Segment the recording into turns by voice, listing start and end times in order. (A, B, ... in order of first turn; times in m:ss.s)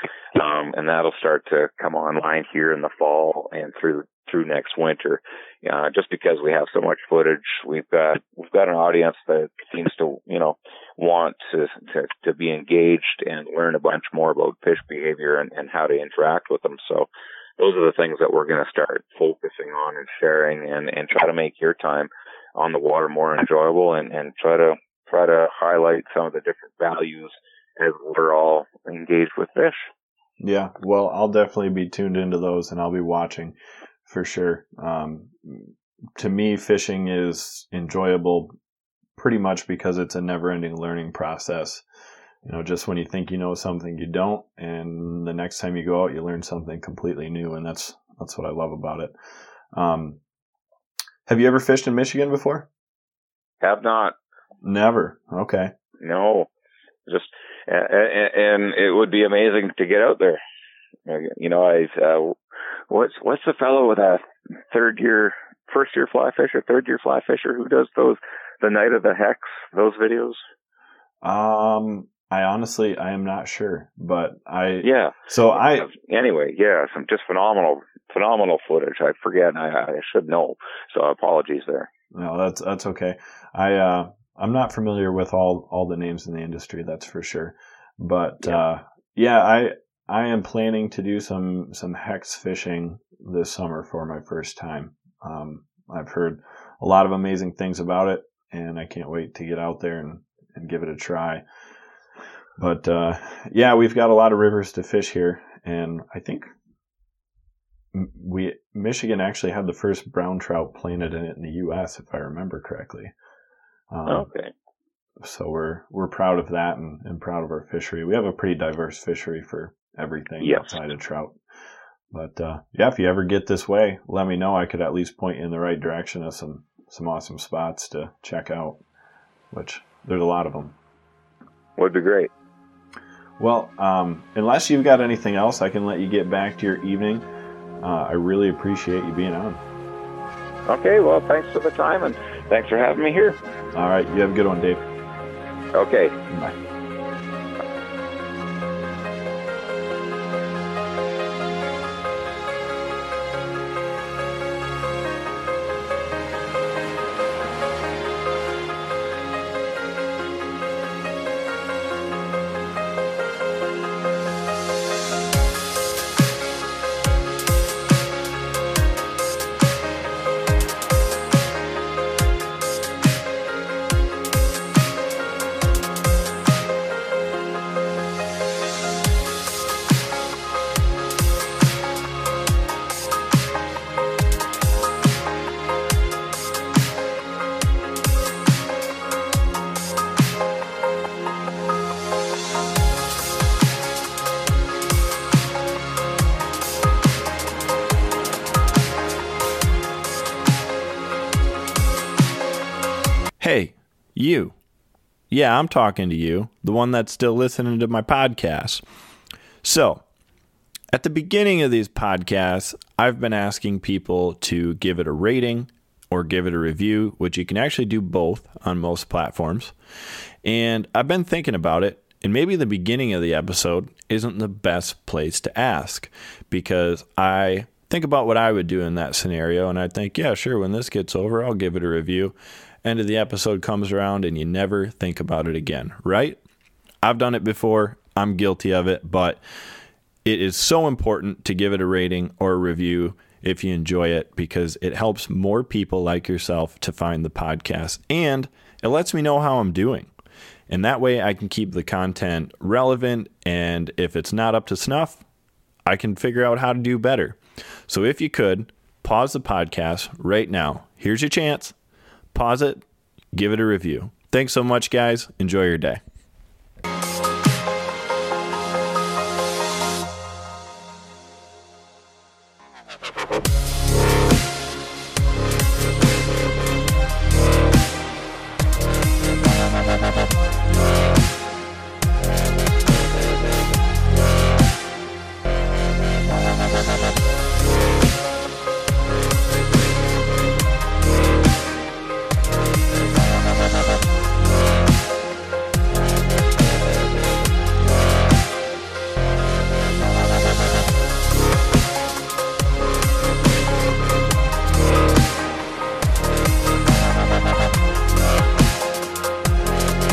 0:00.4-0:17.1 A
0:17.6-0:29.9 A
0:30.4-0:38.5 B
0:39.2-0:41.8 B
0:42.4-0:49.1 B
0:49.7-0:50.2 B
0:51.3-0:52.7 B
0:53.6-0:54.2 A
0:54.6-0:55.7 B
0:56.0-0:56.5 A
0:57.1-1:00.4 A
1:01.1-1:02.4 A
1:02.9-1:10.4 A
1:11.2-1:15.9 B
1:14.8-1:21.9 A
1:22.1-1:41.4 B
1:42.6-1:46.5 B
1:47.9-1:53.1 B
1:53.9-1:54.3 B
1:54.1-1:54.5 A
1:55.2-2:01.4 B
2:00.4-2:00.8 A
2:02.1-2:08.8 B
2:09.5-2:10.8 B
2:11.8-2:12.3 A
2:13.4-2:17.2 B
2:17.8-2:19.6 B
2:20.7-2:23.4 A
2:23.7-2:24.8 B
2:25.7-2:26.2 A
2:26.3-2:26.6 B
3:23.4-3:24.6 B
3:25.3-3:28.8 B
3:29.6-3:30.0 B
3:30.9-3:39.7 B
3:40.4-3:56.4 B
3:57.0-3:59.4 B
4:00.2-4:10.1 B
4:10.7-4:15.2 B
4:15.9-4:21.8 B
4:22.3-4:26.0 B